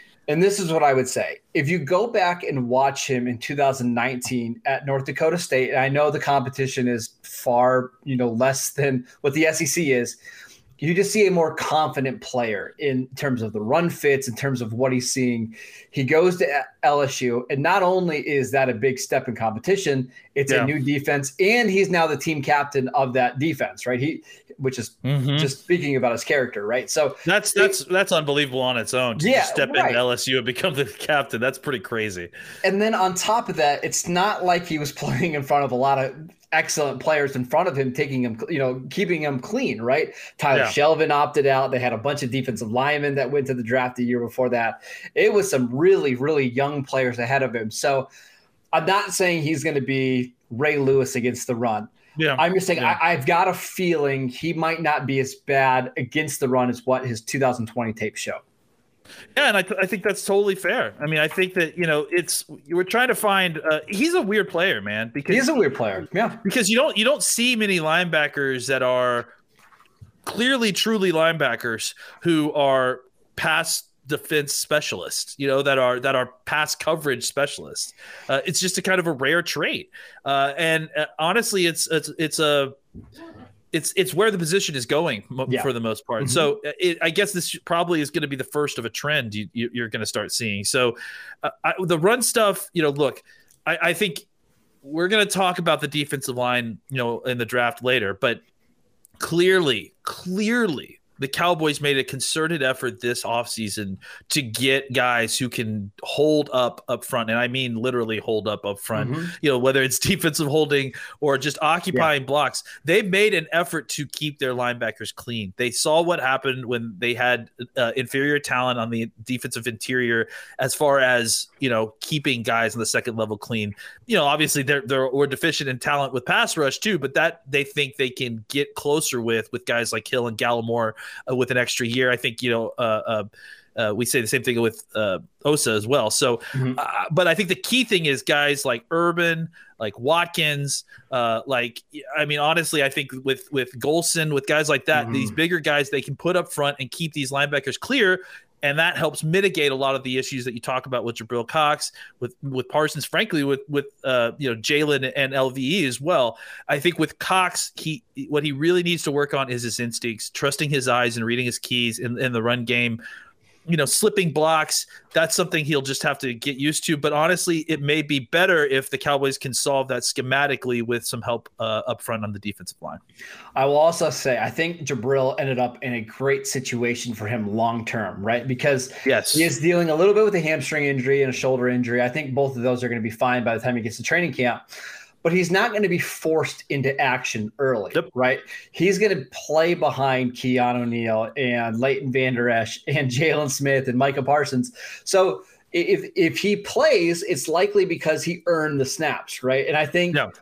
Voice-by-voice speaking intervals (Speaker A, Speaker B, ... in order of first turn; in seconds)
Speaker A: 0.3-10.2, 10.8-27.8, 29.2-30.0, 32.6-48.1, 48.7-58.4, 65.3-66.4, 86.2-86.5, 108.9-109.3, 136.5-136.8, 144.9-145.3, 173.5-184.6, 185.2-200.2
Speaker B: 25.0-25.5, 27.2-32.3, 52.2-53.0, 59.4-65.5, 66.4-69.3, 70.2-82.7, 83.7-94.2, 94.8-98.4, 99.2-163.0, 163.7-173.0, 179.0-179.5